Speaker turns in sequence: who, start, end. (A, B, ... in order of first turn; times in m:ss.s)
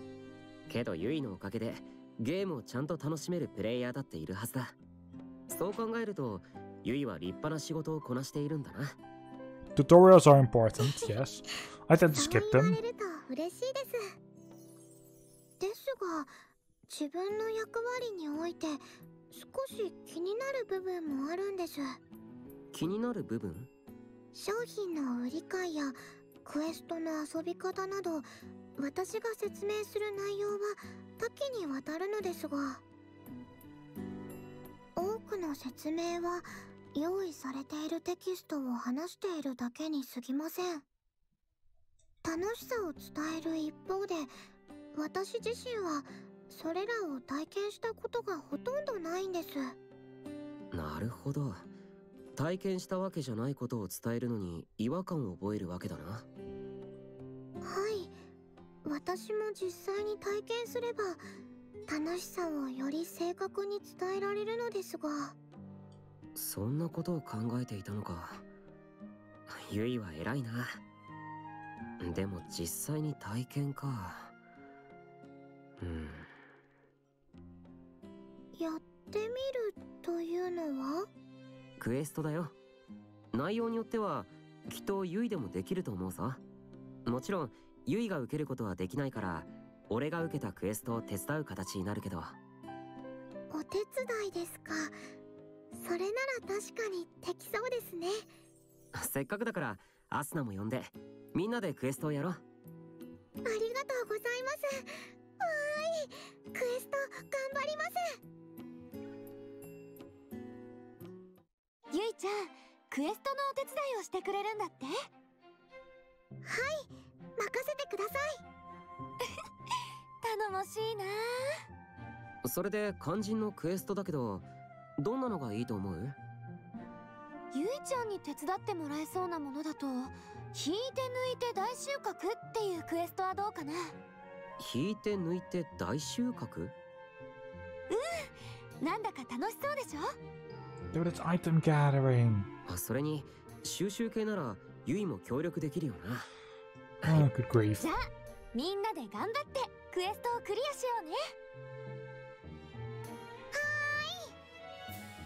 0:00.7-0:04.8 A
0:05.5-0:09.0 A
0:09.8-0:12.8 B
0:12.2-0:14.1 C
0:15.6-0:16.3 C
0:16.9-0:22.0 C
0:22.7-0:23.7 A
0:24.3-0:32.8 C
0:35.0-0:40.8 C
0:42.2-0:44.3 C
0:45.0-0:49.8 C
0:50.7-0:51.7 A
0:52.4-0:56.3 A
0:57.6-0:58.2 C
0:58.8-1:01.2 C
1:01.9-1:05.4 C
1:06.4-1:08.4 A
1:09.5-1:10.8 A
1:12.0-1:14.3 A
1:15.8-1:16.3 A
1:18.6-1:21.1 C
1:21.8-1:22.6 A
1:23.3-1:26.4 A
1:27.1-1:32.4 A
1:33.5-1:35.0 C
1:35.7-1:38.3 C
1:39.0-1:42.4 A
1:43.4-1:44.9 C
1:45.4-1:48.2 C
1:51.9-1:55.1 D
1:56.4-1:58.4 C
2:00.2-2:01.6 D
2:02.4-2:06.2 A
2:07.5-2:14.0 D
2:14.6-2:16.8 A
2:17.9-2:20.2 D
2:20.9-2:22.5 B
2:22.7-2:26.3 A
2:27.0-2:27.3 A
2:27.0-2:27.8 B
2:27.8-2:31.3 D
2:33.6-2:34.3 C